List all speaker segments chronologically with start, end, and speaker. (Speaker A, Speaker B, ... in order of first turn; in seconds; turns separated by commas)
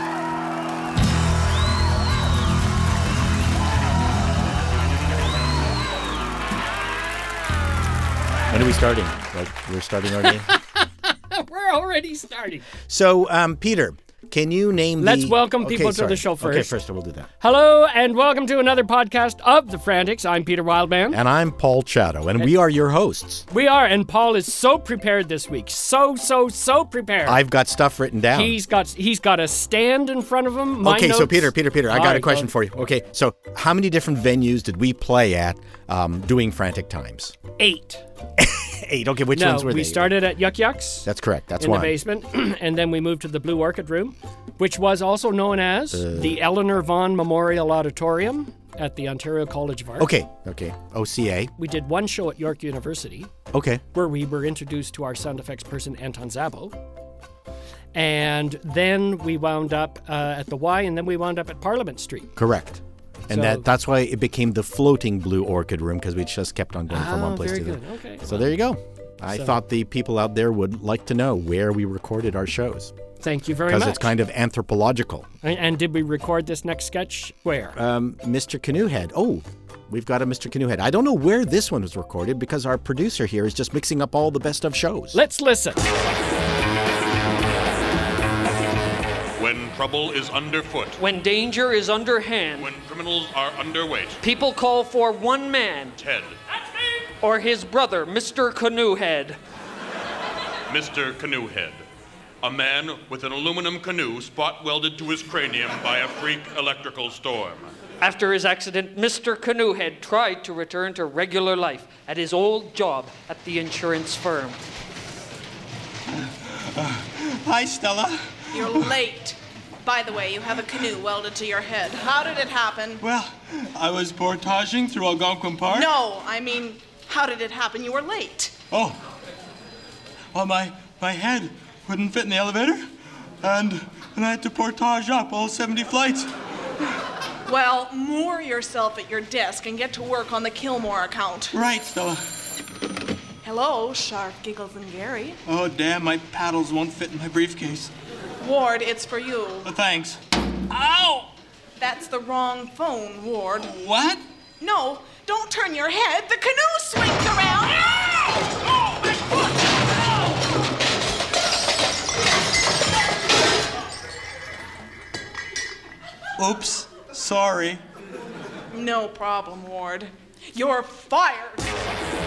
Speaker A: 8.5-10.5, Speaker B: 10.2-12.7, Speaker A: 12.8-17.3, Speaker B: 15.0-16.7, Speaker B: 17.4-21.2, Speaker A: 21.1-23.4, Speaker B: 23.5-27.4, Speaker A: 27.3-28.6, Speaker B: 28.3-32.5, Speaker A: 30.8-37.4, Speaker B: 37.6-38.0, Speaker A: 38.4-40.2, Speaker B: 39.3-41.1, Speaker A: 41.0-42.0, Speaker B: 41.6-50.1, Speaker A: 45.9-46.4, Speaker A: 50.0-51.5, Speaker B: 51.6-53.3, Speaker A: 53.5-53.8, Speaker B: 53.9-56.8, Speaker B: 57.9-62.4, Speaker A: 62.4-73.0, Speaker B: 63.3-63.7, Speaker B: 66.9-68.5, Speaker B: 69.3-69.5, Speaker B: 73.2-74.1, Speaker A: 73.7-75.3, Speaker B: 75.4-77.8, Speaker A: 77.8-85.2, Speaker B: 85.1-85.8, Speaker C: 89.4-91.0, Speaker D: 91.0-92.7, Speaker C: 92.6-94.2, Speaker D: 94.2-96.0, Speaker C: 96.0-96.4, Speaker D: 97.2-99.4, Speaker C: 100.7-101.8, Speaker C: 102.4-107.7, Speaker D: 108.0-114.6, Speaker E: 116.1-119.0, Speaker F: 118.5-123.0, Speaker E: 123.0-125.9, Speaker F: 125.7-128.6, Speaker E: 128.7-129.0, Speaker E: 130.3-132.9, Speaker E: 133.4-136.3, Speaker F: 137.5-141.5, Speaker E: 141.5-142.2, Speaker F: 143.4-145.4, Speaker E: 145.5-147.9, Speaker F: 148.4-149.7, Speaker E: 149.6-150.2, Speaker E: 150.7-151.2, Speaker F: 151.8-153.7, Speaker E: 153.6-154.2, Speaker F: 154.6-157.9, Speaker E: 166.4-167.8, Speaker F: 168.7-171.8